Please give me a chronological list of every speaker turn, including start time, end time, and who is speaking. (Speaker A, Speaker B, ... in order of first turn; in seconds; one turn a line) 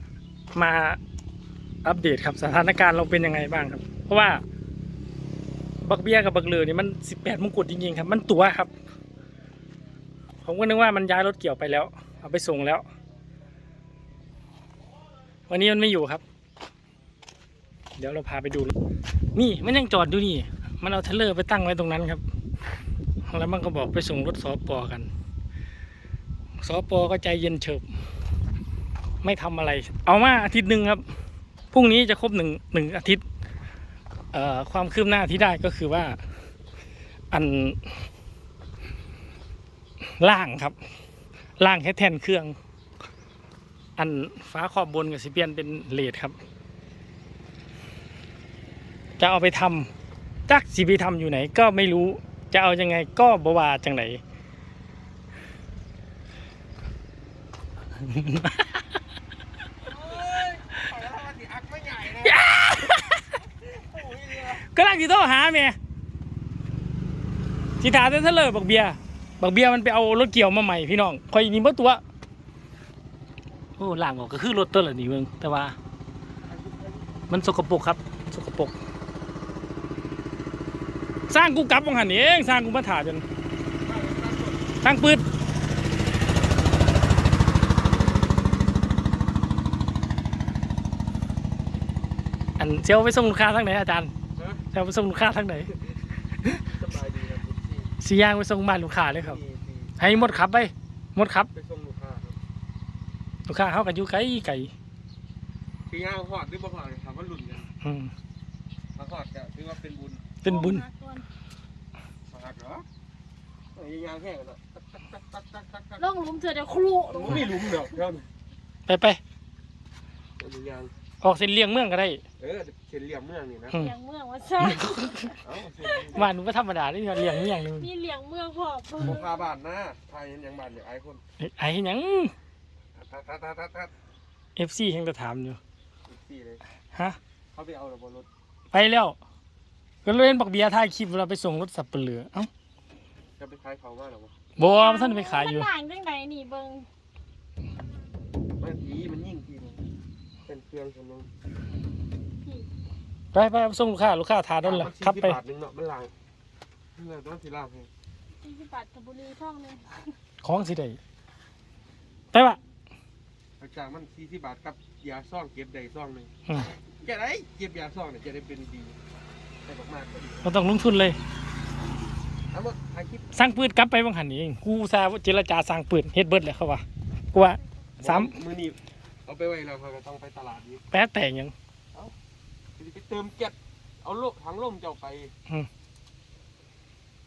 Speaker A: 0.5-1.0
Speaker A: 1.8-4.4
Speaker A: 5.8-8.7
Speaker A: 10.4-12.8
Speaker A: 15.5-16.2
Speaker A: 18.0-18.7
Speaker A: 19.3-22.2
Speaker A: 23.3-25.1
Speaker A: 26.6-27.8
Speaker A: 29.2-31.0
Speaker A: 31.7-33.2
Speaker A: 34.3-36.2
Speaker A: 37.3-38.0
Speaker A: 40.2-40.7
Speaker A: 41.6-42.5
Speaker A: 44.0-46.4
Speaker A: 49.2-49.9
Speaker A: 50.5-54.2
Speaker A: 58.1-58.8
Speaker B: 59.8-62.4
Speaker A: 62.1-63.3
Speaker B: 63.4-64.6
Speaker A: 64.5-65.8
Speaker A: 67.8-72.0
Speaker A: 73.8-75.8
Speaker B: 76.5-77.2
Speaker A: 77.3-78.7
Speaker A: 81.3-83.2
Speaker B: 83.8-84.7
Speaker A: 84.8-85.2
Speaker A: 92.6-94.1
Speaker B: 94.3-94.6
Speaker A: 94.7-95.7
Speaker B: 96.6-97.9
Speaker A: 98.0-99.4
Speaker B: 99.1-100.5
Speaker A: 100.0-101.5
Speaker B: 101.5-102.4
Speaker A: 103.5-104.7
Speaker B: 105.9-107.7
Speaker A: 107.8-108.1
Speaker B: 108.9-110.3
Speaker A: 110.4-110.8
Speaker C: 110.4-111.3
Speaker B: 112.3-112.8
Speaker B: 113.7-116.0
Speaker C: 116.0-117.6
Speaker B: 117.1-118.3
Speaker A: 118.9-119.2
Speaker B: 120.4-120.9
Speaker A: 121.2-122.2
Speaker B: 122.4-123.8
Speaker C: 123.7-126.1
Speaker A: 124.6-125.3
Speaker B: 125.4-126.3
Speaker A: 126.1-127.9
Speaker C: 127.4-129.3
Speaker B: 129.0-131.2
Speaker A: 131.4-132.3
Speaker B: 132.9-133.9
Speaker A: 134.6-135.6
Speaker B: 136.1-136.6
Speaker B: 137.5-138.3
Speaker A: 138.7-139.2
Speaker A: 140.0-142.5
Speaker B: 143.4-144.3
Speaker A: 144.6-145.7
Speaker C: 144.6-146.9
Speaker B: 148.6-149.8
Speaker B: 150.4-151.3
Speaker C: 152.4-152.7
Speaker A: 153.3-155.4
Speaker B: 154.6-156.1
Speaker B: 156.9-157.9
Speaker C: 158.4-160.0
Speaker A: 160.4-161.0
Speaker A: 162.3-162.6
Speaker B: 163.6-166.3
Speaker B: 166.8-169.0
Speaker B: 169.6-170.5
Speaker A: 170.4-171.2
Speaker B: 172.5-173.3
Speaker A: 173.3-178.3
Speaker B: 178.0-180.8
Speaker A: 180.9-181.5
Speaker B: 182.8-185.3